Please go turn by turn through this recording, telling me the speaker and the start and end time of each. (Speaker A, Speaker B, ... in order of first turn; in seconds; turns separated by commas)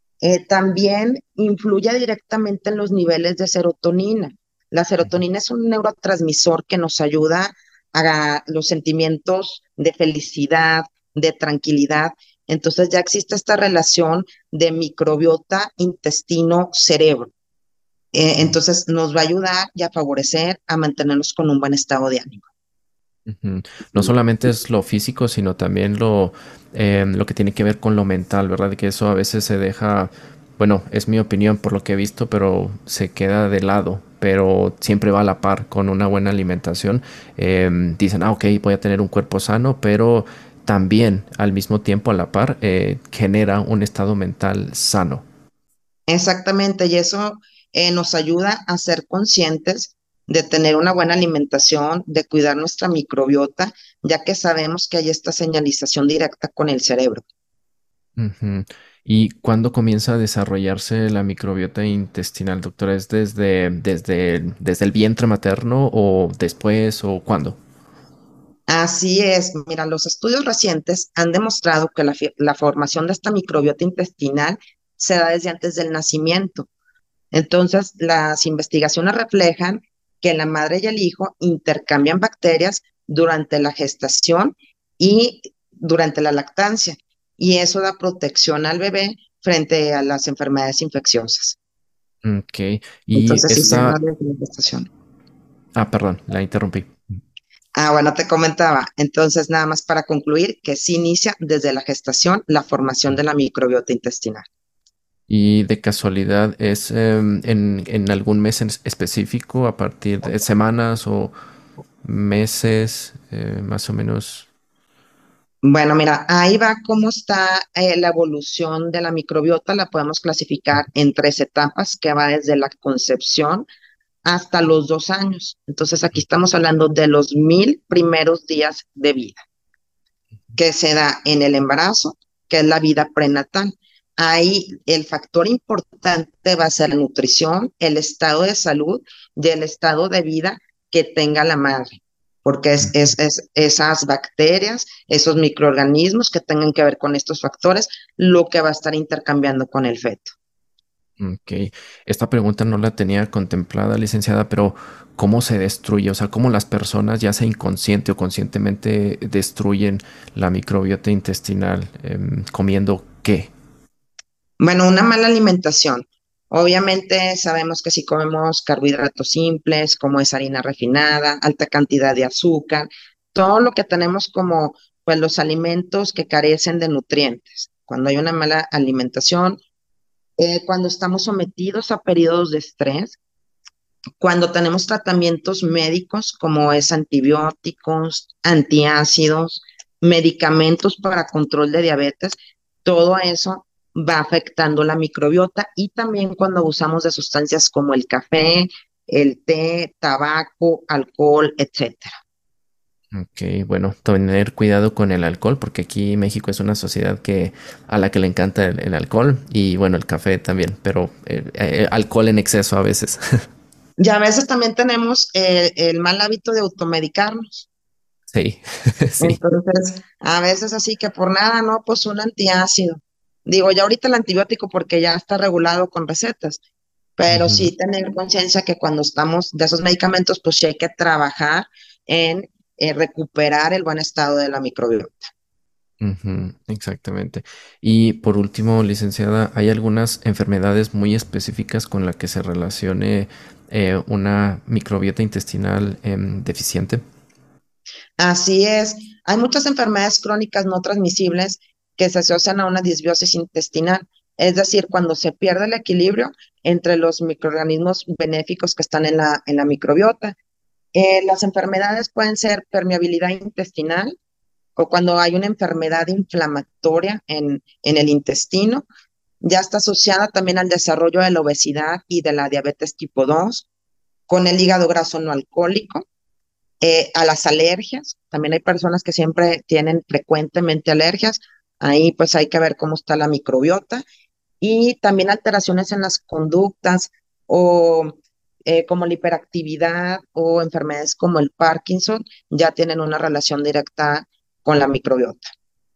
Speaker A: 0.2-17.3, Speaker A: 18.1-22.5, Speaker B: 23.3-45.2, Speaker A: 46.1-57.2, Speaker B: 58.2-67.6, Speaker A: 68.7-76.7, Speaker A: 77.3-91.6, Speaker B: 92.2-94.0, Speaker A: 93.1-94.9, Speaker B: 95.8-97.0, Speaker A: 97.8-104.5, Speaker B: 105.3-111.3, Speaker B: 112.0-114.5, Speaker A: 115.6-123.7, Speaker A: 124.2-129.4, Speaker A: 130.6-150.3, Speaker B: 151.2-163.5, Speaker A: 164.6-179.6, Speaker A: 180.4-183.2, Speaker A: 184.2-202.1, Speaker B: 203.1-213.2, Speaker A: 214.0-217.7, Speaker B: 218.3-219.4, Speaker A: 219.2-226.6, Speaker A: 227.2-235.3, Speaker B: 227.3-227.7, Speaker B: 236.0-247.0, Speaker A: 248.2-260.4, Speaker A: 260.9-264.2, Speaker A: 264.8-268.9, Speaker A: 269.4-273.7, Speaker A: 274.3-276.1, Speaker A: 276.8-284.0, Speaker A: 284.6-295.5